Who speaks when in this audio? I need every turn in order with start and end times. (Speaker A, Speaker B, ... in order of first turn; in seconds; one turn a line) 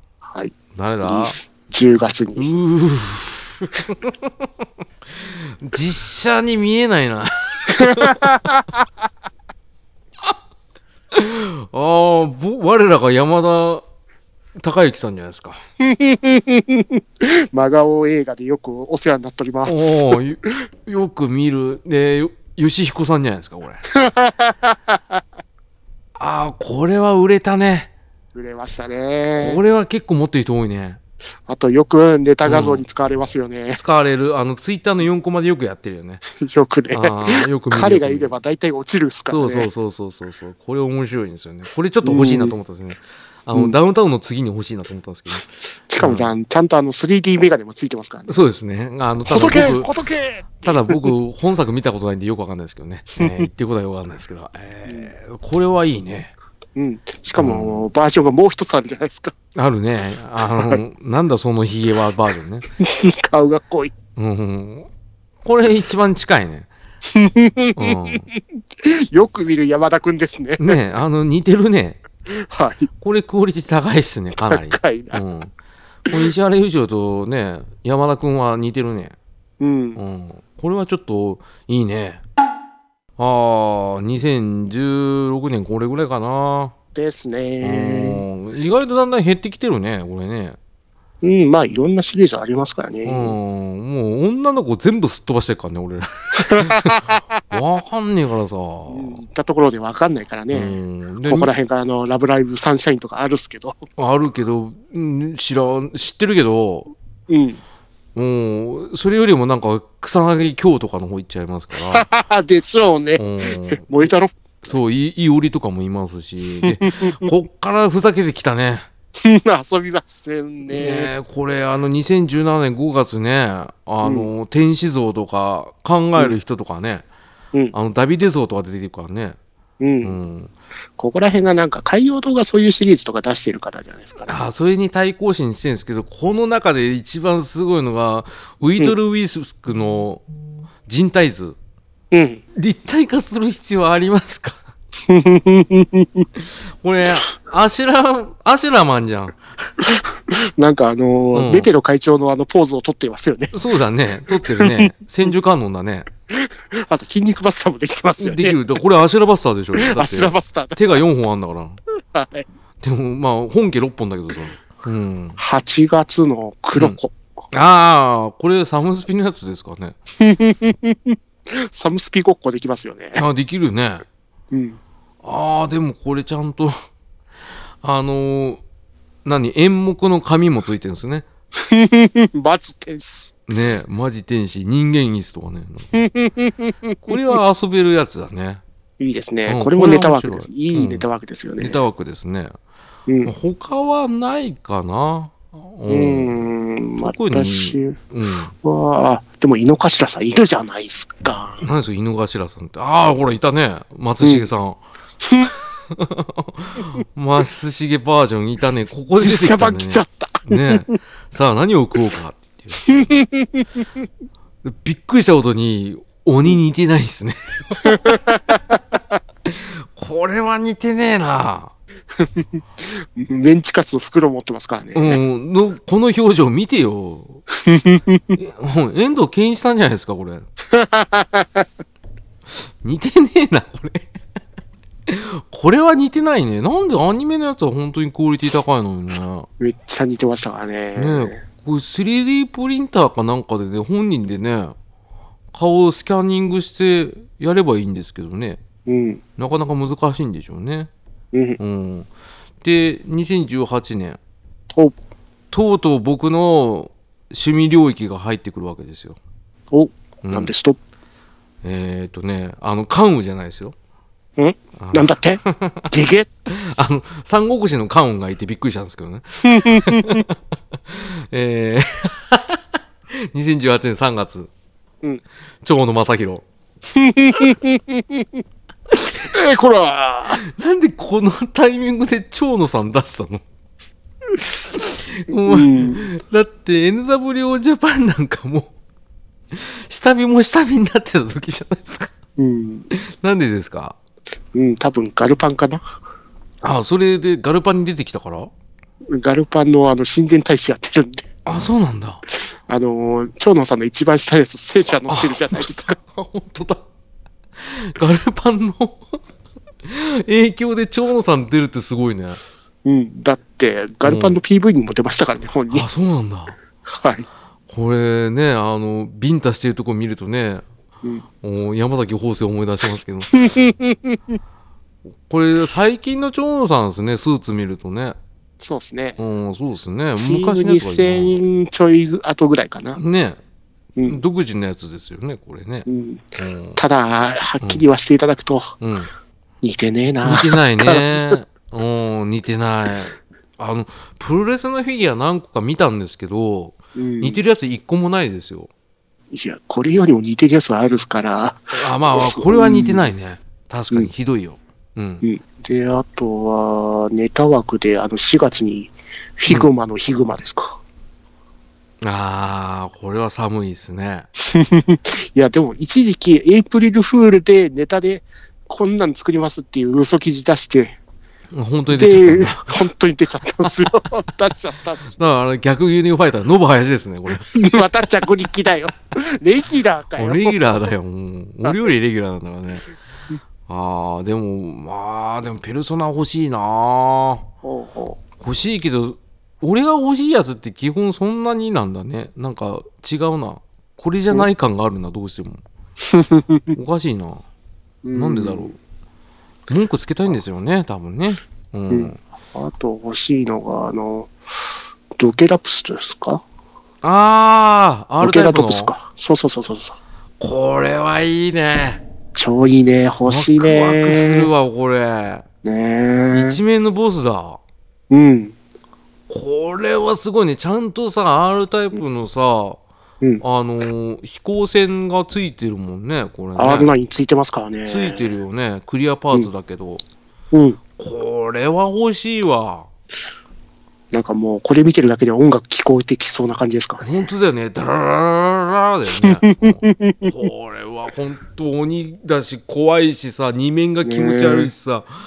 Speaker A: 0.2-2.5
Speaker B: 0.7-1.4
Speaker B: 2.4-4.3
Speaker B: 5.2-8.4
Speaker A: 7.7-8.9
Speaker B: 11.1-13.8
Speaker B: 14.6-15.6
Speaker A: 15.8-20.2
Speaker B: 19.6-23.8
Speaker A: 23.9-25.2
Speaker B: 26.2-27.9
Speaker A: 28.3-29.6
Speaker B: 29.4-31.0
Speaker A: 31.5-33.8
Speaker B: 32.4-32.8
Speaker B: 33.7-36.2
Speaker A: 36.4-39.7
Speaker B: 36.9-38.3
Speaker B: 39.3-46.3
Speaker A: 42.0-42.5
Speaker A: 45.9-48.4
Speaker B: 48.3-49.9
Speaker A: 49.2-51.1
Speaker B: 50.6-56.3
Speaker A: 53.2-53.5
Speaker A: 54.9-55.1
Speaker A: 56.8-59.3
Speaker B: 57.4-57.9
Speaker B: 59.5-62.6
Speaker A: 62.8-63.9
Speaker B: 64.2-64.9
Speaker B: 65.4-66.7
Speaker A: 67.0-70.8
Speaker B: 67.8-68.3
Speaker B: 70.6-72.0
Speaker A: 72.3-72.9
Speaker B: 73.0-75.5
Speaker A: 74.4-75.2
Speaker B: 76.1-79.1
Speaker A: 79.6-80.0
Speaker B: 80.0-82.2
Speaker B: 83.2-86.7
Speaker A: 86.9-88.2
Speaker B: 87.6-90.6
Speaker A: 91.2-93.3
Speaker B: 93.0-99.2
Speaker A: 96.4-97.4
Speaker A: 98.9-103.8
Speaker B: 100.5-101.5
Speaker B: 104.0-106.9
Speaker A: 107.3-107.6
Speaker B: 108.1-112.0
Speaker A: 111.9-114.8
Speaker B: 113.2-113.9
Speaker B: 114.6-118.9
Speaker A: 116.6-117.3
Speaker A: 119.2-121.1
Speaker B: 120.7-127.0
Speaker A: 124.0-124.3
Speaker B: 127.7-129.4
Speaker A: 129.8-130.2
Speaker B: 130.0-130.5
Speaker A: 131.0-134.3
Speaker B: 134.3-140.2
Speaker B: 140.8-141.6
Speaker A: 142.1-142.4
Speaker B: 142.6-144.6
Speaker A: 145.1-146.3
Speaker B: 146.4-149.7
Speaker A: 149.8-153.5
Speaker B: 151.3-151.7
Speaker B: 153.5-156.1
Speaker A: 154.3-154.9
Speaker A: 156.3-158.6
Speaker B: 158.2-161.8
Speaker A: 159.8-160.8
Speaker A: 162.0-162.4
Speaker B: 162.8-165.4
Speaker A: 165.4-167.1
Speaker B: 167.5-170.0
Speaker A: 170.2-173.2
Speaker B: 173.2-174.0
Speaker A: 174.5-174.8
Speaker B: 175.2-176.8
Speaker B: 177.8-178.6
Speaker B: 179.2-181.3
Speaker A: 181.5-183.3
Speaker B: 183.5-185.9
Speaker A: 185.9-187.4
Speaker B: 187.0-188.6
Speaker A: 189.0-191.8
Speaker B: 189.4-191.0
Speaker B: 191.6-192.5
Speaker A: 193.1-193.3
Speaker B: 193.2-196.4
Speaker A: 195.9-198.0
Speaker B: 197.0-198.5
Speaker A: 198.6-201.6
Speaker B: 201.6-204.8
Speaker A: 204.2-204.5
Speaker A: 205.2-205.5
Speaker B: 205.4-213.1
Speaker A: 209.2-210.9
Speaker A: 212.9-213.8
Speaker B: 214.6-218.2
Speaker A: 217.8-219.0
Speaker B: 219.4-221.7
Speaker A: 222.2-225.2
Speaker B: 224.9-227.4
Speaker A: 227.5-228.4
Speaker B: 228.3-230.5
Speaker A: 230.7-231.7
Speaker B: 232.8-234.1
Speaker B: 235.1-239.5
Speaker A: 239.6-241.4
Speaker B: 240.9-244.7
Speaker B: 245.5-248.6
Speaker A: 248.8-249.2
Speaker B: 249.4-250.9
Speaker A: 251.3-251.6
Speaker B: 251.6-252.1
Speaker B: 252.6-254.2
Speaker B: 255.5-259.2
Speaker A: 259.7-260.8
Speaker B: 260.2-260.5
Speaker B: 261.6-263.7
Speaker A: 264.4-266.3
Speaker B: 264.8-265.9
Speaker B: 266.5-270.4
Speaker A: 269.4-270.2
Speaker B: 270.9-272.6
Speaker B: 273.1-274.5
Speaker B: 275.6-276.4
Speaker A: 276.9-278.4
Speaker B: 278.9-279.3
Speaker A: 279.3-280.4
Speaker B: 280.4-283.4
Speaker B: 284.7-288.7
Speaker A: 285.3-286.1
Speaker B: 289.5-292.1
Speaker A: 292.4-292.9
Speaker B: 292.9-294.0
Speaker A: 294.5-295.8
Speaker B: 296.6-298.5
Speaker A: 299.1-301.3
Speaker B: 301.4-302.2
Speaker A: 302.7-305.9
Speaker B: 305.1-306.8
Speaker B: 307.6-309.0
Speaker B: 309.8-312.4
Speaker A: 312.8-315.9
Speaker B: 314.0-314.4
Speaker B: 315.7-316.6
Speaker A: 316.9-317.2
Speaker B: 317.7-320.6
Speaker B: 321.4-323.5
Speaker A: 323.3-324.2
Speaker B: 325.3-328.2
Speaker A: 328.6-329.2
Speaker B: 329.2-331.4
Speaker A: 330.2-333.0
Speaker B: 332.9-333.4
Speaker B: 334.0-336.8
Speaker A: 335.9-336.2
Speaker A: 336.8-338.7
Speaker B: 338.8-339.1
Speaker A: 339.6-341.4
Speaker B: 340.2-348.7
Speaker A: 346.9-347.4
Speaker A: 349.3-353.1
Speaker B: 351.7-355.2
Speaker A: 355.2-360.8
Speaker B: 362.0-364.3
Speaker A: 364.4-371.0
Speaker B: 371.5-372.8
Speaker A: 371.9-375.2
Speaker B: 375.1-377.8
Speaker A: 377.3-380.6
Speaker B: 380.2-382.9
Speaker B: 383.7-387.5
Speaker A: 387.6-388.2
Speaker B: 388.4-395.6
Speaker A: 396.0-396.8
Speaker B: 396.7-397.4
Speaker A: 398.0-398.7
Speaker B: 398.1-398.8
Speaker B: 399.7-402.2
Speaker A: 401.9-404.3
Speaker A: 405.1-406.4
Speaker B: 407.0-408.9
Speaker A: 408.2-410.0
Speaker B: 410.4-412.0
Speaker A: 412.3-414.5
Speaker B: 413.3-415.4
Speaker A: 415.6-416.6
Speaker B: 416.3-417.6
Speaker A: 418.1-418.5
Speaker B: 419.3-422.8
Speaker B: 423.4-426.9
Speaker A: 426.6-428.3
Speaker B: 427.9-430.0
Speaker A: 430.5-430.8
Speaker B: 431.0-432.9
Speaker A: 434.1-437.1
Speaker B: 437.0-445.1
Speaker A: 439.2-440.3
Speaker A: 444.0-444.7